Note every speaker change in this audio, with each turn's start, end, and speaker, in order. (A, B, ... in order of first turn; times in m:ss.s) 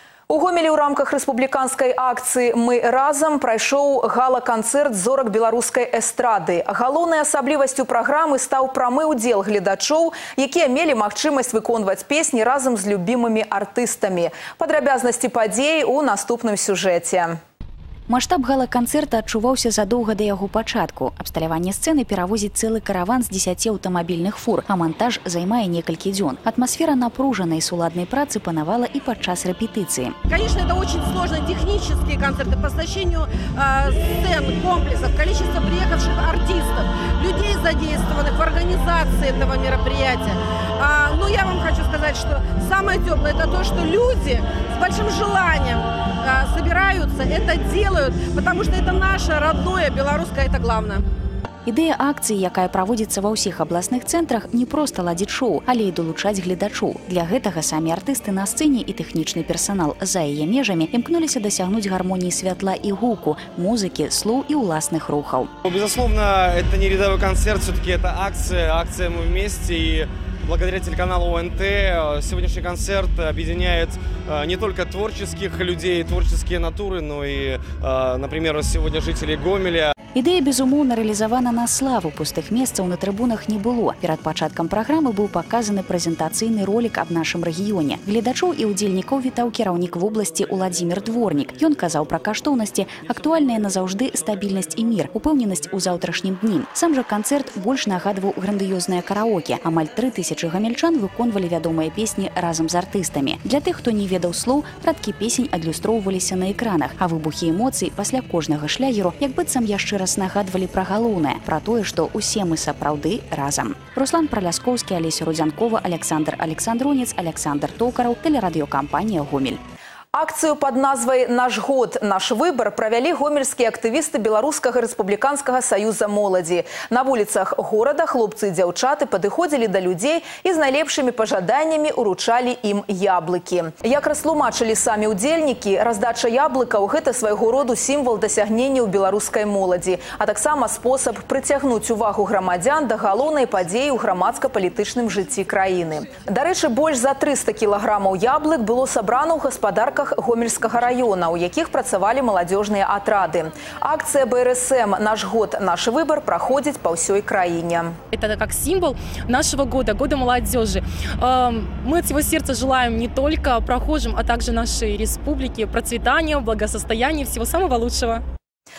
0:00.3-0:17.4 A
0:18.1-0:30.1 B
0:30.3-0:51.0 C
0:51.6-1:05.5 B
1:05.6-1:19.9 D
1:20.1-1:59.6 B
2:00.1-2:38.0 A
2:38.1-2:48.2 E